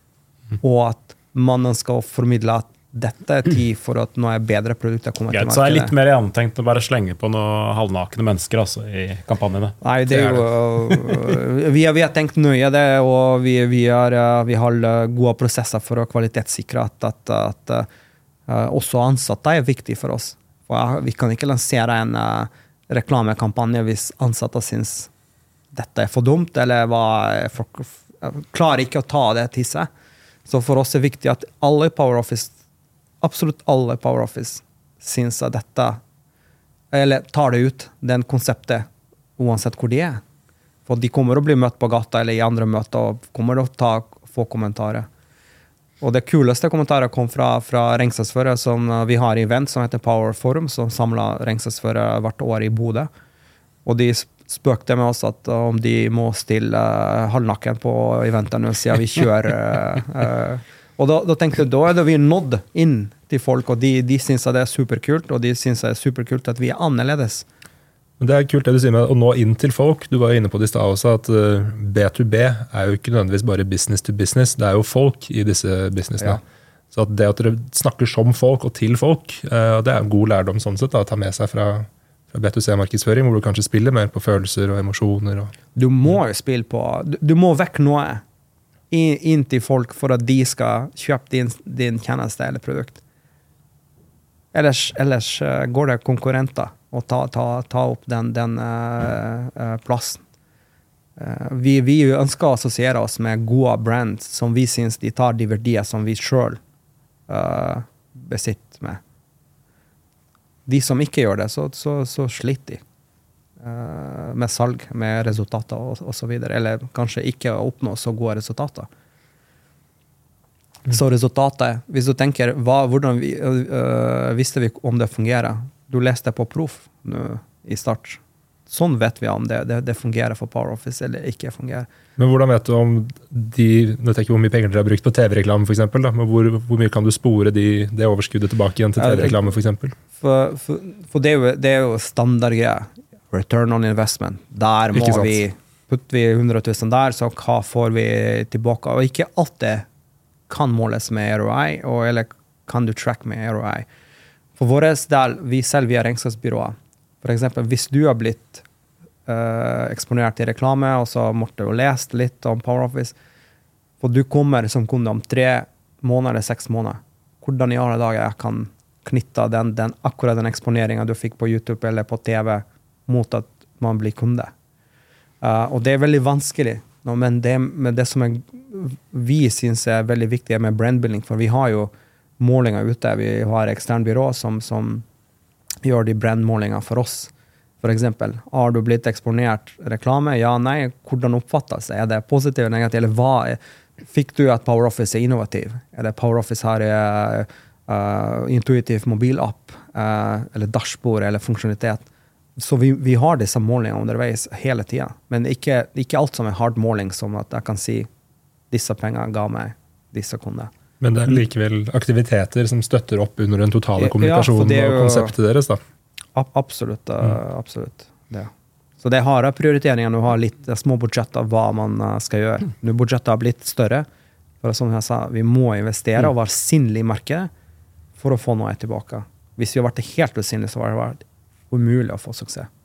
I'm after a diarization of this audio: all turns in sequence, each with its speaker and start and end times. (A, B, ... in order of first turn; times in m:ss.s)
0:00.6-0:05.9 A
0:05.3-0:11.2 B
0:09.8-0:17.9 A
0:18.5-0:25.1 A
0:25.7-0:29.9 A
0:30.5-0:32.5 A
0:33.2-0:36.0 A
0:36.9-0:40.2 A
0:40.9-0:45.1 A
0:46.0-0:53.1 A
0:53.8-1:07.4 A
1:08.2-1:16.4 C
1:16.9-1:25.5 C
1:25.8-1:28.2 A
1:28.9-1:33.0 A
1:34.5-1:40.2 A
1:41.2-1:46.6 A
1:47.3-1:49.0 A
1:50.7-1:52.8 A
1:53.6-1:58.9 A
2:00.9-2:11.9 A
2:12.2-2:19.9 C
2:19.0-2:19.5 A
2:20.2-2:29.9 A
2:24.9-2:25.4 C
2:30.5-2:33.9 A
2:34.6-2:38.6 A
2:39.3-2:43.2 A
2:44.0-2:54.5 A
2:55.4-3:05.0 A
3:05.8-3:22.0 A
3:22.6-3:28.1 A
3:28.7-3:30.7 A
3:31.0-3:35.8 C
3:34.0-3:35.3 A
3:36.4-3:38.5 A
3:39.0-3:44.1 A
3:44.6-3:47.5 A
3:48.2-3:52.7 A